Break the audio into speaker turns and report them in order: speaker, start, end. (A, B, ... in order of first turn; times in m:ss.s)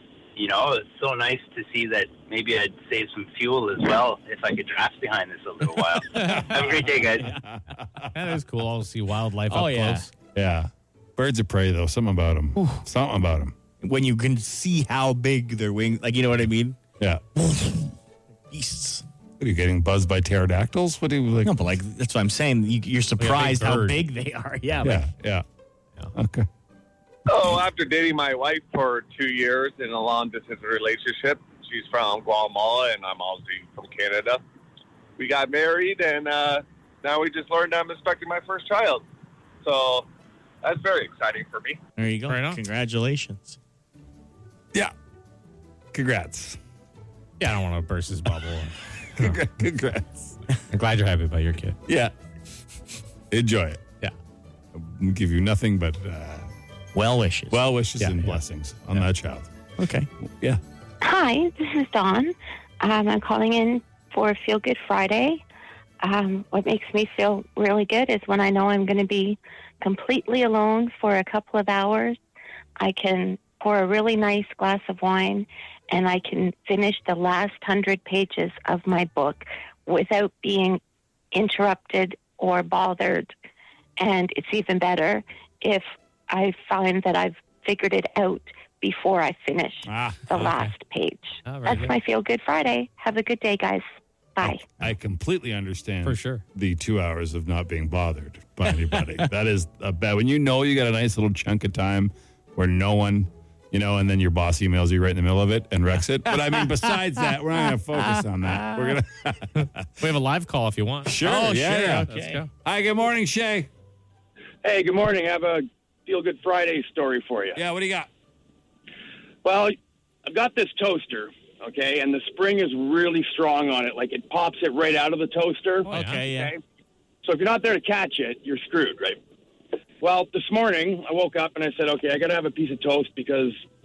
0:00.4-0:07.4 A
0:06.1-0:06.6 B
0:06.2-0:08.1 C
0:08.1-0:10.1 B
0:09.5-0:10.1 D
0:10.4-0:13.6 C
0:12.6-0:12.8 D
0:13.8-0:16.8 D
0:17.4-0:17.8 D
0:18.5-0:19.0 D
0:19.4-0:21.7 C
0:21.4-0:25.0 D
0:23.2-0:24.1 B
0:24.8-0:25.4 C
0:26.2-0:26.5 C
0:27.3-0:34.4 E
0:35.2-0:39.0 E
0:39.6-0:40.1 E
0:40.6-0:41.8 E
0:42.0-0:43.6 D
0:42.3-0:42.6 B
0:45.9-0:46.6 C
0:47.4-0:49.3 B
0:49.2-0:50.4 C
0:50.7-0:51.8 B
0:51.9-0:52.1 C
0:53.3-0:53.8 C
0:54.7-0:56.5 C
0:56.9-0:57.6 D
0:57.5-0:59.5 C
0:58.0-0:58.4 B
0:59.8-1:00.1 D
1:01.0-1:05.4 F
1:06.0-1:12.2 F
1:12.8-1:20.8 F
1:21.3-1:23.3 F
1:24.0-1:33.8 F
1:29.9-1:30.2 C
1:30.3-1:30.7 B
1:31.4-1:31.9 B
1:34.4-1:34.6 F
1:34.4-1:49.9 C
1:36.0-1:36.4 B
1:46.3-1:47.2 D
1:47.9-1:49.0 D
1:49.6-1:51.2 B
1:51.1-1:53.7 C
1:51.1-1:52.4 D
1:52.1-1:52.5 B
1:54.6-1:57.6 G
1:57.6-1:58.1 C
1:59.4-1:59.8 G
2:00.3-2:06.6 G
2:05.9-2:06.3 B
2:05.9-2:06.5 D
2:07.2-2:09.2 G
2:10.0-2:13.6 G